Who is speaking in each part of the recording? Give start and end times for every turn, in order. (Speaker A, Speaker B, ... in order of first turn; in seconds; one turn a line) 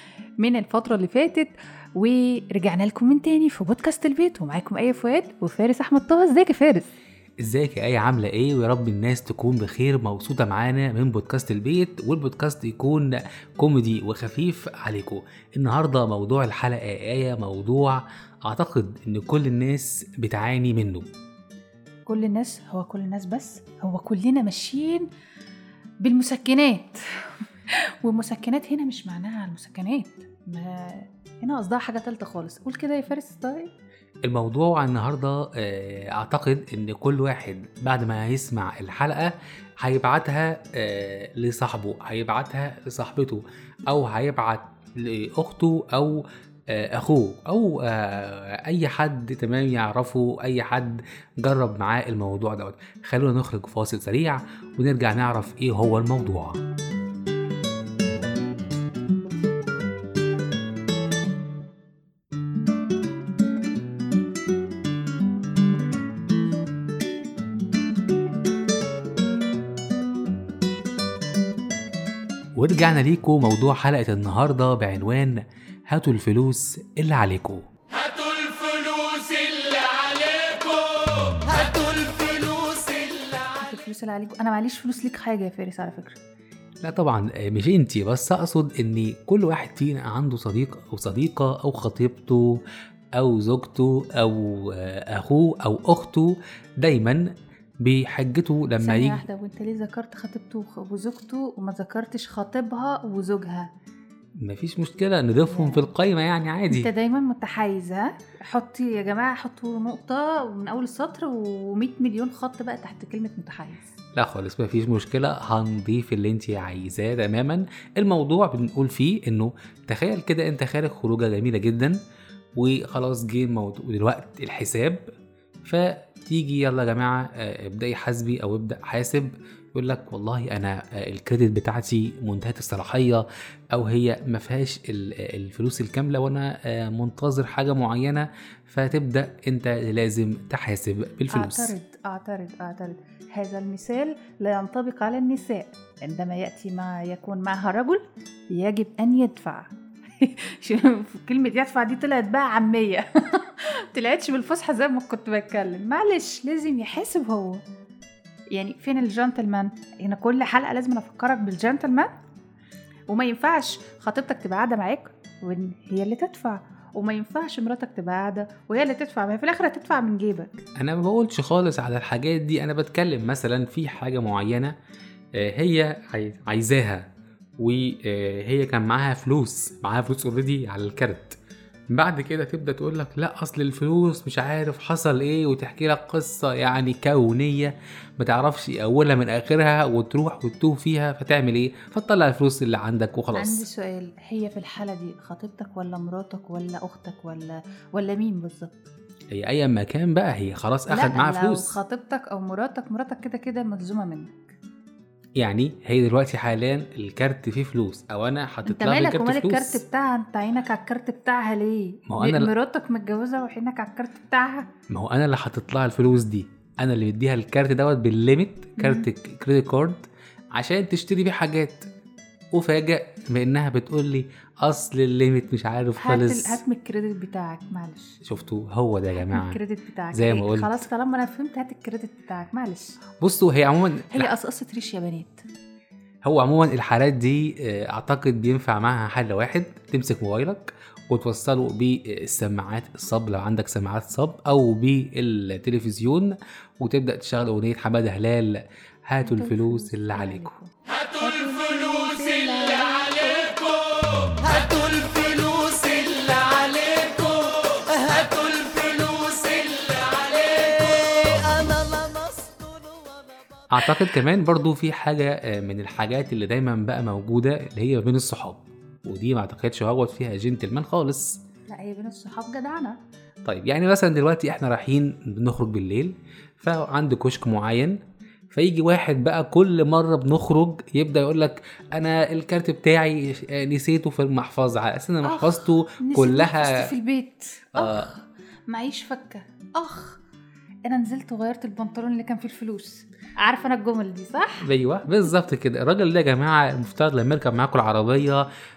Speaker A: 0.4-6.9
Speaker B: 7.4-21.1
Speaker A: 22.1-25.1
Speaker A: 26.0-27.0
Speaker A: 28.1-33.7
Speaker B: 34.3-56.6
Speaker B: 72.6-77.6
Speaker C: 79.1-79.7
Speaker C: 81.5-83.2
Speaker A: 83.5-86.2
Speaker B: 86.8-92.6
Speaker B: 93.2-97.3
Speaker B: 97.8-99.2
Speaker A: 98.8-103.7
Speaker B: 104.4-106.9
Speaker A: 105.5-105.8
Speaker A: 106.7-113.9
Speaker B: 114.2-122.0
Speaker B: 122.6-125.0
Speaker B: 125.6-141.7
Speaker A: 141.3-148.0
Speaker A: 148.5-157.6
Speaker A: 158.5-162.1
Speaker A: 163.1-170.6
Speaker B: 170.8-174.7
Speaker B: 175.4-177.1
Speaker B: 177.6-181.4
Speaker B: 181.9-193.7
Speaker A: 193.3-198.9
Speaker B: 199.3-201.8
Speaker A: 200.9-204.5
Speaker B: 205.4-209.8
Speaker A: 208.7-214.7
Speaker B: 212.1-212.5
Speaker B: 214.9-221.9
Speaker A: 218.8-219.1
Speaker B: 222.6-226.6
Speaker A: 226.0-228.2
Speaker B: 228.2-229.6
Speaker A: 229.2-233.0
Speaker B: 230.1-230.8
Speaker B: 233.2-234.3
Speaker A: 234.1-235.4
Speaker B: 236.2-250.5
Speaker A: 249.2-257.6
Speaker C: 257.8-263.2
Speaker B: 263.7-271.4
Speaker A: 271.7-273.0
Speaker B: 273.4-278.0
Speaker B: 278.5-286.8
Speaker A: 285.2-290.2
Speaker B: 287.8-288.1
Speaker A: 290.9-294.7
Speaker B: 294.6-298.4